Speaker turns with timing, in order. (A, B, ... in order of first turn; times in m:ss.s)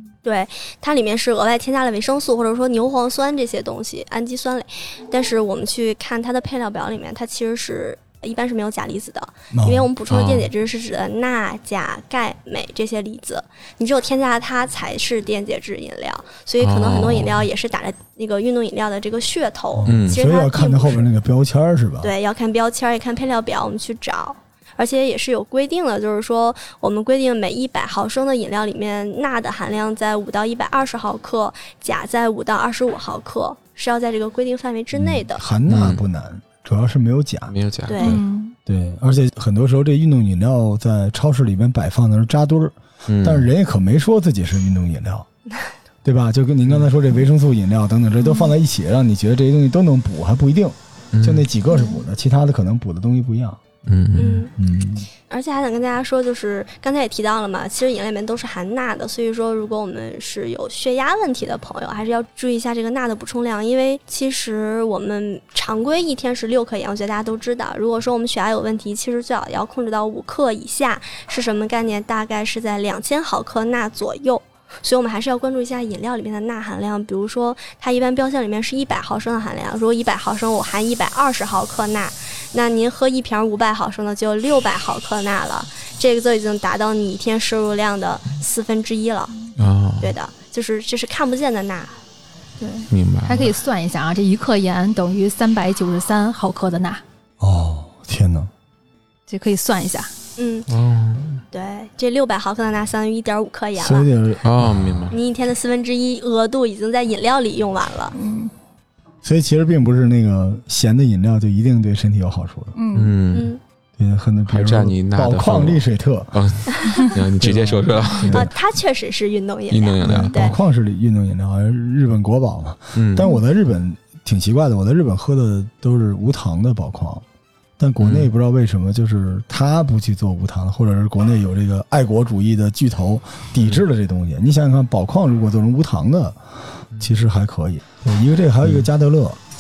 0:00.2-0:21.1 A
0:09.5-0:09.9 B
0:10.1-0:10.5 C
0:16.6-0:17.4 C
0:19.8-0:22.1 B
0:19.9-0:20.2 C
0:22.0-0:35.4 A
0:35.3-0:37.5 B
0:35.7-0:36.0 C
0:37.5-0:38.2 C
0:37.9-0:38.2 A
0:38.0-0:38.6 D
0:38.7-0:45.3 B
0:43.1-0:43.5 C
0:46.0-0:53.6 B
0:48.2-0:48.5 D
0:51.1-0:51.5 C
0:51.7-0:52.0 D
0:53.9-0:54.5 C
0:54.2-0:55.1 B
0:54.2-0:54.5 A
0:55.3-1:29.3 A
1:29.6-1:30.2 C
1:30.0-1:32.0 A
1:32.6-1:37.0 D
1:32.9-1:33.5 C
1:37.4-1:38.5 B
1:39.3-1:40.1 D
1:40.4-1:40.7 A
1:40.7-1:41.4 C
1:41.5-1:44.1 A
1:43.8-1:45.2 B
1:44.4-1:45.2 C
1:45.1-1:48.2 A
1:48.1-1:48.5 D
1:49.2-1:52.8 B
1:52.8-1:53.1 D
1:52.9-1:53.5 C
1:53.3-1:53.6 A
1:54.0-1:56.4 B
1:54.5-1:58.5 C
1:57.4-1:58.5 B
1:58.3-2:00.6 A
1:59.7-2:00.5 C
2:00.0-2:07.2 B
2:03.0-2:03.3 C
2:07.8-2:16.4 B
2:08.0-2:08.3 C
2:17.0-2:19.4 B